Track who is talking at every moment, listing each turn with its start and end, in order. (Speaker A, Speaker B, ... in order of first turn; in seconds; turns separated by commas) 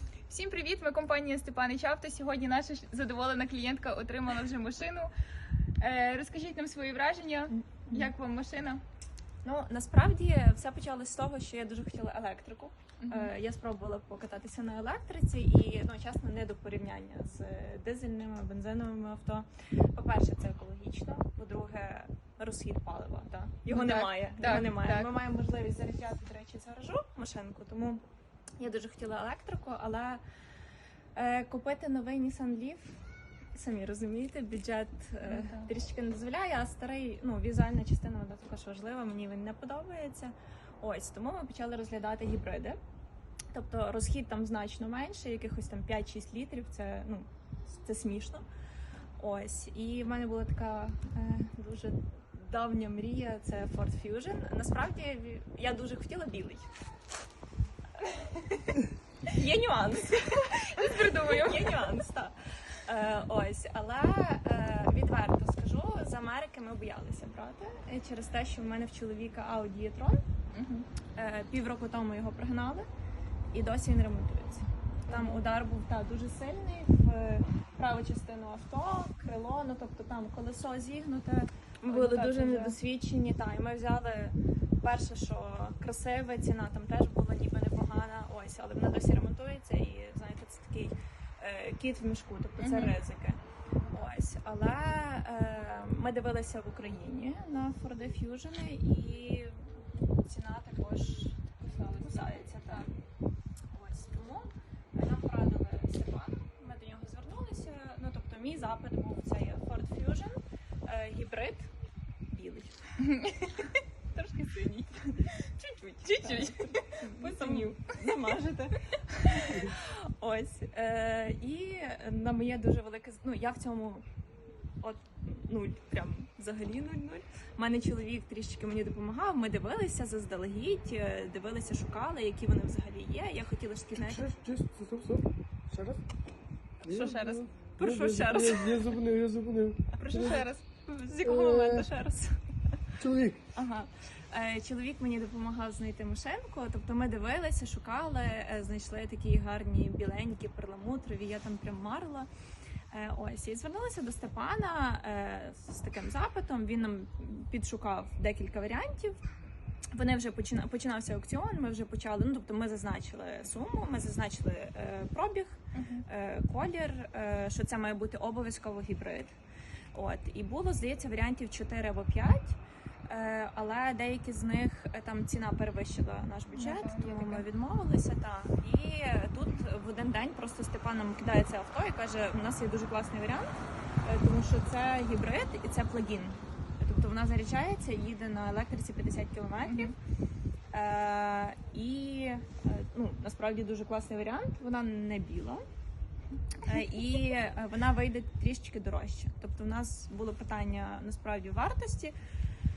Speaker A: 0.3-5.1, Speaker A: 5.8-8.8, Speaker B: 9.4-28.0, Speaker A: 13.0-13.3, Speaker A: 23.7-25.1, Speaker B: 28.6-30.2, Speaker B: 31.1-33.0, Speaker B: 33.5-42.8, Speaker A: 35.2-35.7, Speaker B: 43.5-48.4, Speaker B: 49.2-56.7, Speaker A: 58.1-58.4, Speaker B: 59.3-70.2, Speaker A: 60.7-61.9, Speaker A: 70.5-70.9, Speaker B: 71.1-72.9, Speaker B: 73.5-93.4, Speaker A: 75.1-75.4, Speaker A: 81.9-82.8, Speaker A: 92.6-93.0, Speaker B: 93.9-102.9, Speaker B: 103.7-111.7, Speaker B: 112.3-112.8, Speaker A: 113.0-117.9, Speaker B: 116.1-124.0, Speaker A: 119.1-119.6, Speaker B: 124.8-134.2, Speaker C: 133.9-136.0, Speaker C: 136.8-140.4, Speaker B: 136.8-138.9, Speaker B: 139.9-142.8, Speaker A: 140.1-140.6, Speaker C: 141.2-141.9, Speaker C: 143.0-143.4, Speaker B: 143.5-152.3, Speaker B: 152.9-159.2, Speaker B: 159.9-169.3, Speaker A: 165.7-166.0, Speaker B: 169.9-189.9, Speaker A: 176.5-177.5, Speaker A: 189.7-189.9, Speaker B: 190.7-195.6, Speaker B: 196.6-202.1